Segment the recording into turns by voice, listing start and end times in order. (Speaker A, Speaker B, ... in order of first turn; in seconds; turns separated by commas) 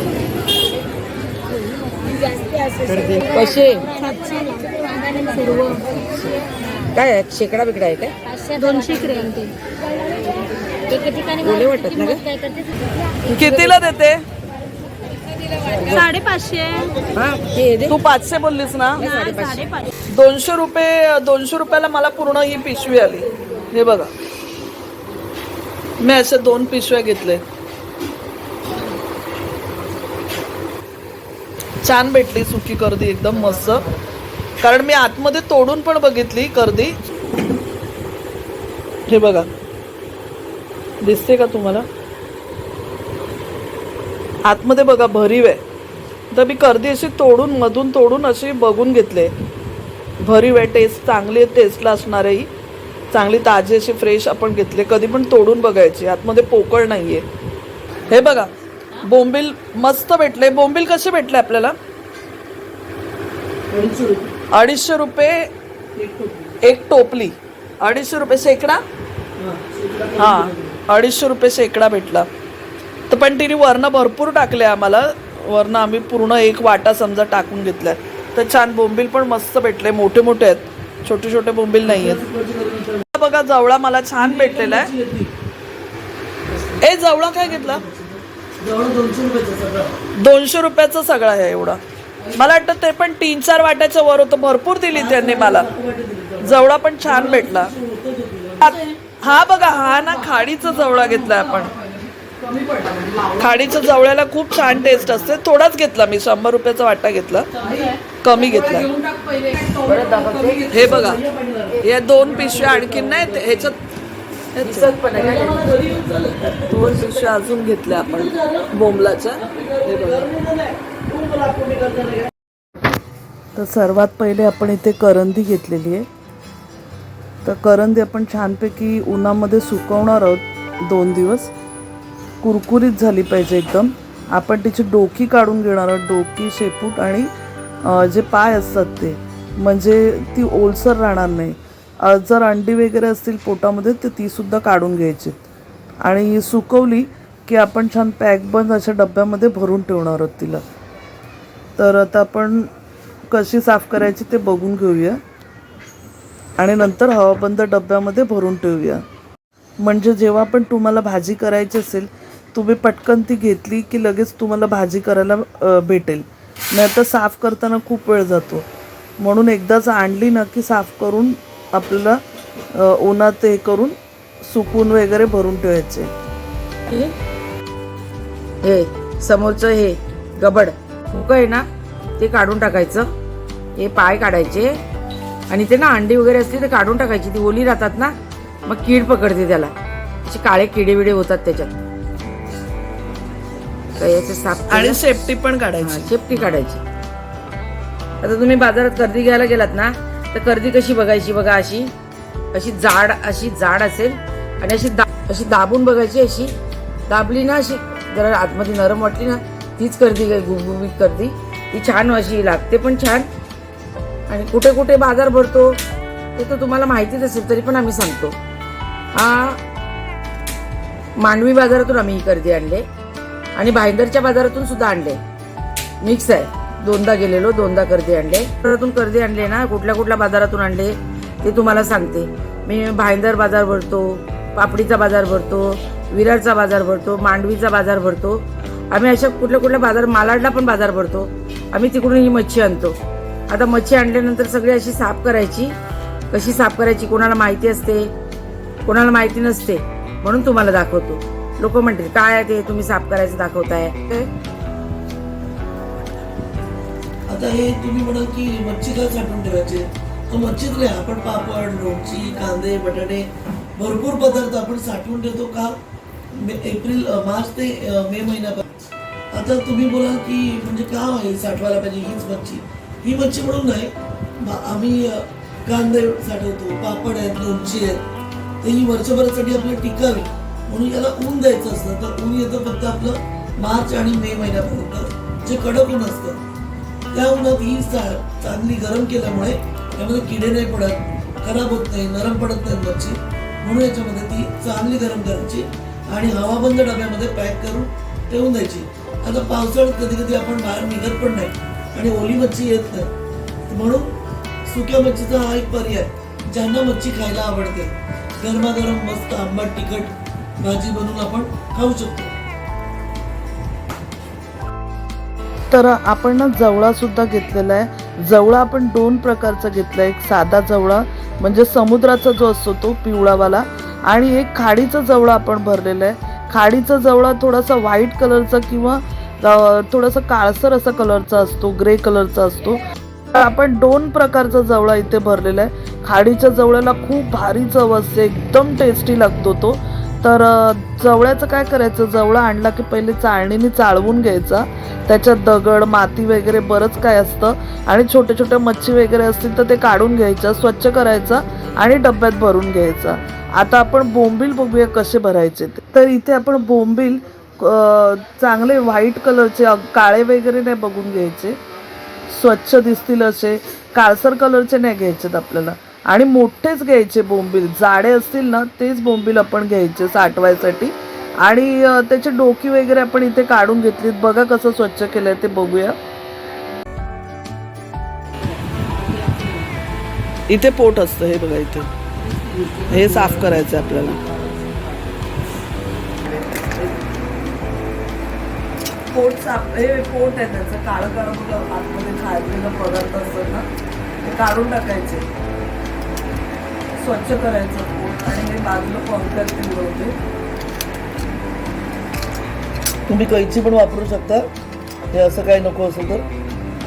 Speaker A: 3.0-4.1, Speaker A: 5.4-5.8, Speaker A: 6.9-8.9, Speaker B: 8.7-9.5, Speaker A: 10.9-12.4, Speaker C: 13.3-14.2, Speaker A: 15.7-16.1, Speaker B: 16.1-16.9, Speaker A: 17.1-17.9, Speaker C: 17.9-19.1, Speaker A: 18.9-19.7, Speaker C: 20.1-24.1, Speaker C: 26.0-27.4, Speaker C: 31.8-33.9, Speaker C: 34.6-37.0, Speaker C: 39.1-39.5, Speaker C: 41.0-41.9, Speaker C: 44.5-45.6, Speaker C: 46.3-49.3, Speaker C: 50.2-52.5, Speaker C: 53.1-57.2, Speaker C: 58.1-61.8, Speaker D: 63.7-64.3, Speaker C: 64.5-65.5, Speaker D: 66.0-66.6, Speaker C: 66.6-68.8, Speaker D: 69.4-70.8, Speaker C: 70.2-72.3, Speaker C: 73.1-82.2, Speaker D: 81.8-83.0, Speaker C: 83.1-84.9, Speaker D: 84.2-85.3, Speaker D: 86.5-86.8, Speaker C: 86.8-87.8, Speaker D: 87.4-90.0, Speaker C: 90.2-91.8, Speaker C: 92.3-95.7, Speaker D: 94.9-98.8, Speaker C: 96.4-97.7, Speaker C: 98.6-101.7, Speaker B: 102.4-103.5, Speaker C: 103.2-107.6, Speaker B: 107.6-109.8, Speaker C: 108.1-108.9, Speaker D: 109.8-113.7, Speaker A: 109.9-110.8, Speaker C: 110.7-111.2, Speaker C: 111.8-113.8, Speaker C: 114.6-114.9, Speaker D: 114.6-118.8, Speaker A: 114.7-115.7, Speaker C: 116.7-120.3, Speaker D: 119.3-122.3, Speaker C: 123.5-126.1, Speaker C: 127.4-131.5, Speaker C: 132.4-137.3, Speaker C: 137.8-145.4, Speaker C: 146.0-150.6, Speaker C: 151.8-152.7, Speaker C: 153.3-155.2, Speaker C: 156.6-159.0, Speaker C: 159.8-168.7, Speaker C: 169.2-172.2, Speaker C: 172.7-176.1, Speaker A: 176.9-177.1, Speaker A: 178.6-181.7, Speaker A: 182.2-183.1, Speaker A: 183.8-184.8, Speaker A: 185.5-188.1, Speaker A: 188.7-189.7, Speaker A: 190.2-191.8, Speaker A: 193.9-195.2, Speaker C: 194.7-196.2, Speaker A: 195.8-196.8, Speaker A: 198.2-201.9, Speaker A: 202.5-206.5, Speaker A: 207.1-213.3, Speaker A: 214.3-215.8, Speaker A: 216.3-218.4, Speaker A: 219.1-219.6, Speaker A: 221.2-222.8, Speaker A: 223.6-225.2, Speaker A: 226.0-243.0, Speaker A: 243.5-245.8, Speaker A: 246.3-248.1, Speaker A: 248.8-254.3, Speaker D: 257.3-265.8, Speaker D: 266.3-268.6, Speaker D: 269.3-278.0, Speaker D: 278.6-286.4, Speaker D: 287.1-303.1, Speaker D: 303.7-304.1, Speaker D: 304.6-312.3, Speaker C: 315.7-332.8, Speaker C: 333.3-361.6, Speaker C: 362.3-376.0, Speaker B: 379.0-379.6, Speaker C: 380.5-381.9, Speaker B: 382.2-383.3, Speaker C: 382.8-384.4, Speaker B: 384.3-385.0, Speaker C: 386.5-386.9, Speaker C: 389.1-393.6, Speaker C: 394.2-395.2, Speaker C: 397.0-400.1, Speaker D: 403.1-404.5, Speaker D: 405.1-406.2